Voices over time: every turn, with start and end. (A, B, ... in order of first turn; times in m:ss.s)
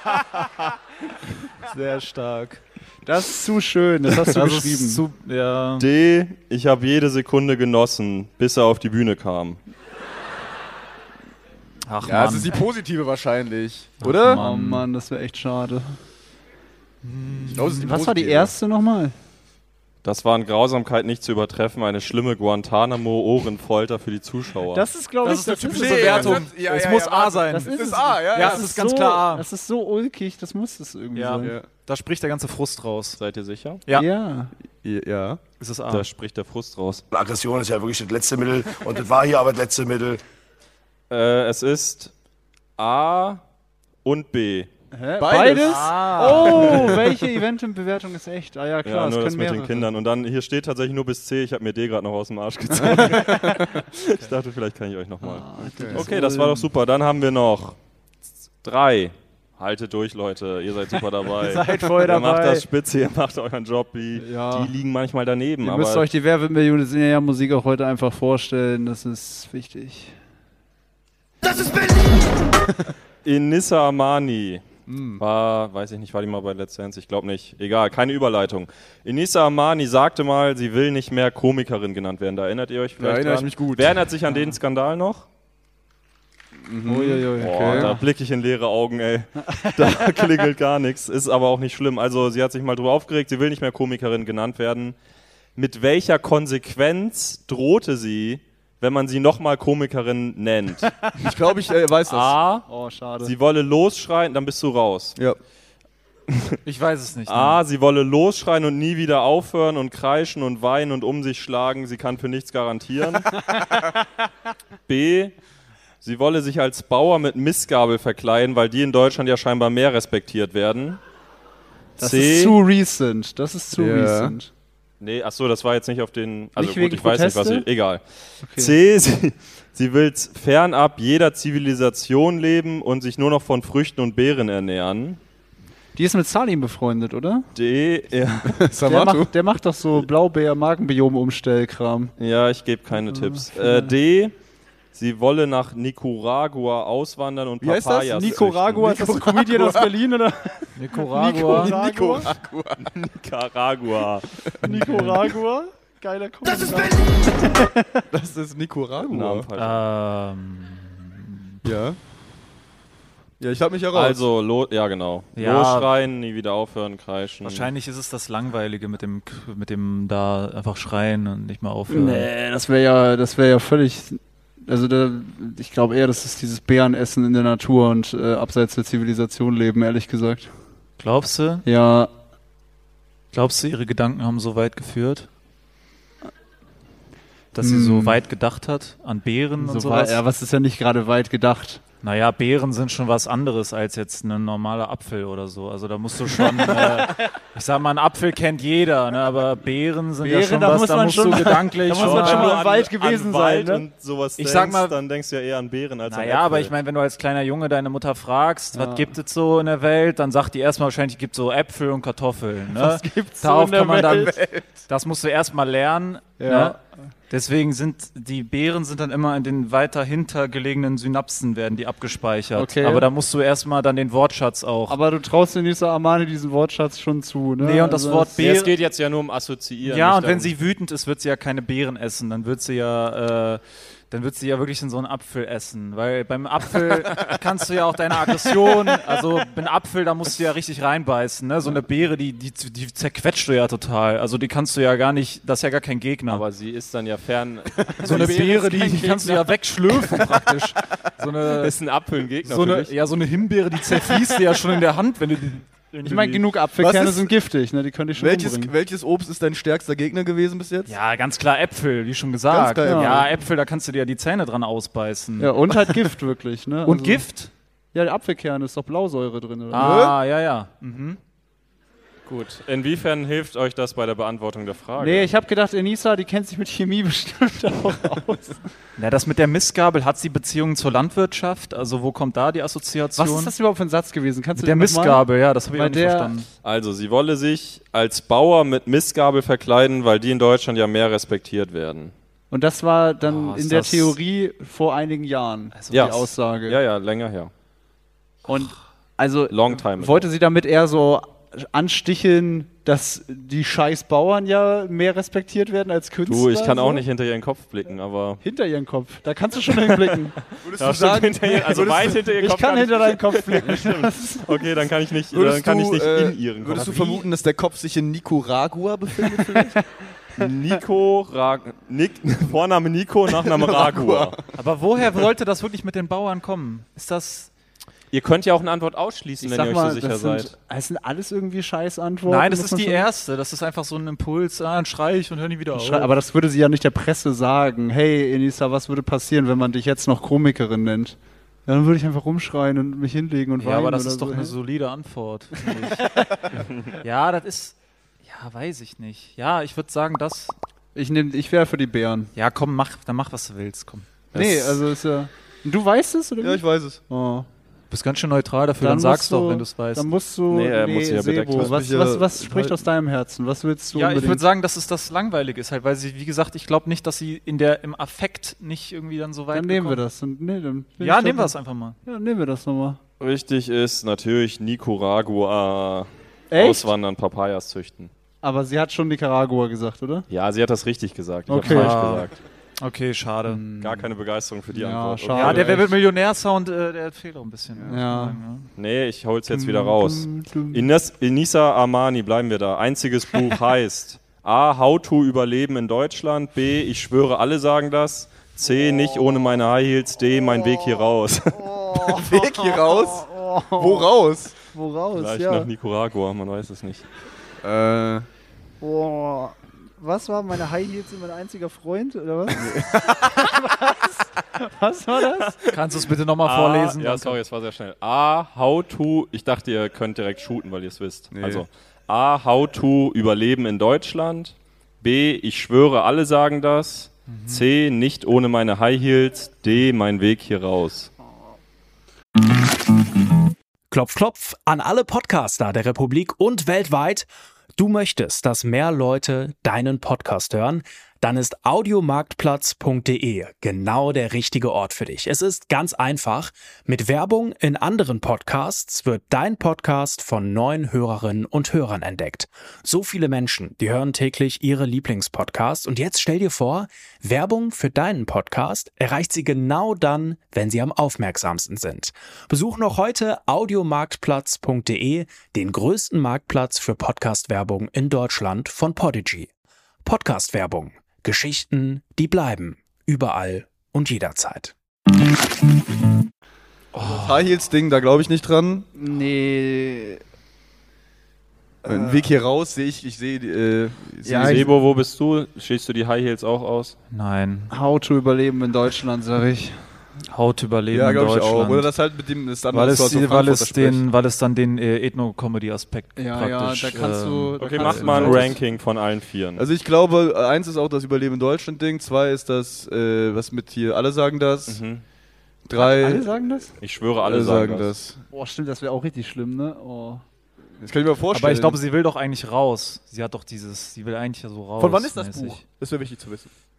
0:01.7-0:02.6 A
0:03.0-0:05.0 B
0:04.3-0:05.9 A
0:05.8-0:09.6 C
0:11.9-0:12.6 A
0:12.0-0:14.4 D
0:14.0-0:14.9 A
0:14.3-0:16.0 B
0:17.0-0:17.9 A
0:17.5-0:18.5 D
0:17.8-0:19.1 B
0:20.0-0:24.9 C
0:24.7-0:26.5 B
0:25.2-0:29.4 A
0:25.3-0:28.7 D
0:27.5-0:31.6 B
0:31.1-0:33.2 A
0:31.4-0:31.6 D
0:33.2-0:33.8 C
0:33.9-0:34.5 B
0:34.8-0:35.4 D
0:35.6-0:36.0 A
0:35.9-0:37.0 C
0:37.1-0:40.2 E
0:41.1-0:42.1 C
0:42.8-0:43.4 C
0:44.0-0:44.7 C
0:44.9-0:49.9 B
0:45.2-0:47.0 D
0:45.5-0:46.8 A
0:46.5-0:47.0 C
0:48.8-0:57.8 C
0:52.8-0:53.7 D
0:55.2-0:56.7 B
0:55.7-0:56.1 D
0:58.6-1:06.0 C
1:01.3-1:02.6 B
1:04.2-1:04.7 B
1:05.6-1:10.2 B
1:13.2-1:14.6 C
1:14.9-1:15.2 D
1:15.2-1:25.3 C
1:23.0-1:24.0 D
1:26.6-1:27.9 D
1:26.9-1:28.0 B
1:27.4-1:35.0 C
1:29.5-1:30.2 B
1:35.6-1:40.9 C
1:41.2-1:42.4 D
1:42.1-1:42.6 C
1:42.7-1:43.3 B
1:43.2-1:45.2 C
1:46.6-1:47.6 A
1:47.3-1:53.3 C
1:54.9-1:55.4 C
1:56.0-2:01.0 C
2:02.0-2:02.6 C
2:02.0-2:04.5 B
2:03.7-2:04.4 D
2:05.0-2:08.0 C
2:06.6-2:07.6 B
2:08.4-2:08.7 B
2:08.6-2:15.2 C
2:15.9-2:17.4 B
2:17.6-2:18.6 C
2:18.4-2:19.3 D
2:18.9-2:22.1 B
2:22.2-2:24.3 C
2:23.0-2:23.9 B
2:24.9-2:29.1 C
2:27.6-2:29.9 D
2:28.1-2:32.3 B
2:30.7-2:31.8 A
2:31.3-2:32.8 D
2:32.8-2:34.3 C
2:34.6-2:35.2 A
2:34.6-2:38.0 B
2:38.1-2:39.5 D
2:39.0-2:39.8 C
2:39.6-2:41.6 A
2:41.6-2:42.0 D
2:43.4-2:44.2 D
2:43.9-2:47.7 C
2:45.4-2:45.9 A
2:47.4-2:52.3 A
2:51.9-3:00.5 B
3:01.0-3:01.6 A
3:01.6-3:02.1 B
3:03.3-3:05.3 A
3:07.5-3:10.2 A
3:07.6-3:08.2 B
3:09.6-3:11.8 B
3:12.0-3:22.6 A
3:20.2-3:23.8 B
3:21.9-3:26.7 C
3:24.4-3:25.0 A
3:26.1-3:36.8 A
3:28.7-3:29.1 B
3:32.7-3:34.6 B
3:36.4-3:36.8 B
3:37.3-3:45.0 A
3:42.6-3:43.1 B
3:44.9-3:48.3 B
3:47.6-3:48.7 A
3:48.4-3:50.5 C
3:49.8-4:06.4 A
4:06.3-4:08.4 C
4:07.9-4:09.4 B
4:08.0-4:11.7 A
4:11.6-4:12.9 C
4:12.4-4:16.4 A
4:16.0-4:18.7 B
4:16.8-4:17.3 D
4:18.1-4:20.9 D
4:20.9-4:26.0 A
4:22.5-4:23.3 D
4:22.8-4:23.2 B
4:25.4-4:27.2 B
4:26.8-4:27.5 A
4:27.9-4:30.1 B
4:29.7-4:31.2 A
4:29.8-4:30.1 D
4:32.3-4:35.3 C
4:35.0-4:38.6 B
4:39.0-4:43.5 A
4:43.2-4:46.3 B
4:44.6-4:46.5 A
4:46.6-4:52.1 C
4:52.5-4:56.8 B
4:53.2-4:54.2 A
4:55.7-4:56.1 A
4:55.9-4:57.5 C
4:58.5-5:07.0 B
4:59.5-5:00.3 C
5:06.3-5:08.4 C
5:08.4-5:10.4 B
5:09.7-5:10.1 C
5:10.6-5:12.2 D
5:10.8-5:17.2 C
5:12.2-5:14.6 B
5:15.3-5:19.7 D
5:20.4-5:24.4 C
5:23.4-5:24.5 D
5:24.6-5:27.5 A
5:28.1-5:30.5 C
5:29.4-5:33.1 B
5:32.3-5:36.1 A
5:35.7-5:44.6 B
5:43.6-5:46.1 A
5:45.7-5:46.5 B
5:47.0-5:50.6 A
5:50.9-5:52.3 B
5:52.4-5:54.1 A
5:54.3-5:54.8 C
5:54.3-5:57.5 B
5:56.4-5:57.0 D
5:57.9-6:00.1 A
5:58.8-6:04.4 B
6:00.5-6:01.7 C
6:01.6-6:02.8 D
6:03.9-6:10.0 A
6:09.5-6:11.5 B
6:11.0-6:12.0 A
6:12.0-6:13.0 B
6:13.2-6:18.1 C
6:16.5-6:16.9 B
6:18.4-6:20.3 B
6:20.3-6:22.3 C
6:21.5-6:22.2 B
6:21.6-6:22.3 A
6:22.8-6:23.6 A
6:23.4-6:24.1 B
6:23.8-6:25.9 C
6:24.7-6:25.9 B
6:25.3-6:28.6 A
6:27.8-6:28.4 B
6:28.8-6:42.2 C
6:29.5-6:30.9 B
6:41.6-6:44.1 B
6:42.2-6:44.6 D
6:44.6-6:45.7 B
6:45.1-6:47.0 C
6:47.6-6:48.3 D
6:48.8-6:55.6 B
6:52.6-6:53.2 D
6:55.4-6:55.7 C
6:55.7-6:57.4 A
6:56.4-7:11.1 C
7:01.3-7:01.6 D
7:07.3-7:07.6 A
7:13.9-7:49.5 F
7:50.0-7:54.7 F
7:56.9-7:57.4 A
7:57.0-7:58.9 D
7:59.0-8:00.2 B
8:01.8-8:04.7 D
8:01.9-8:02.2 B
8:04.2-8:04.6 B
8:04.4-8:07.0 C
8:07.1-8:07.7 A
8:07.7-8:09.8 B
8:10.3-8:11.9 A
8:10.9-8:14.0 D
8:12.7-8:18.5 A
8:16.2-8:18.6 B
8:17.6-8:19.6 C
8:19.6-8:24.8 D
8:24.7-8:25.0 C
8:25.6-8:26.3 D
8:25.8-8:26.7 B
8:26.8-8:27.9 C
8:27.2-8:28.2 D
8:28.3-8:30.2 B
8:30.8-8:31.8 D
8:31.3-8:35.6 A
8:34.8-8:36.5 D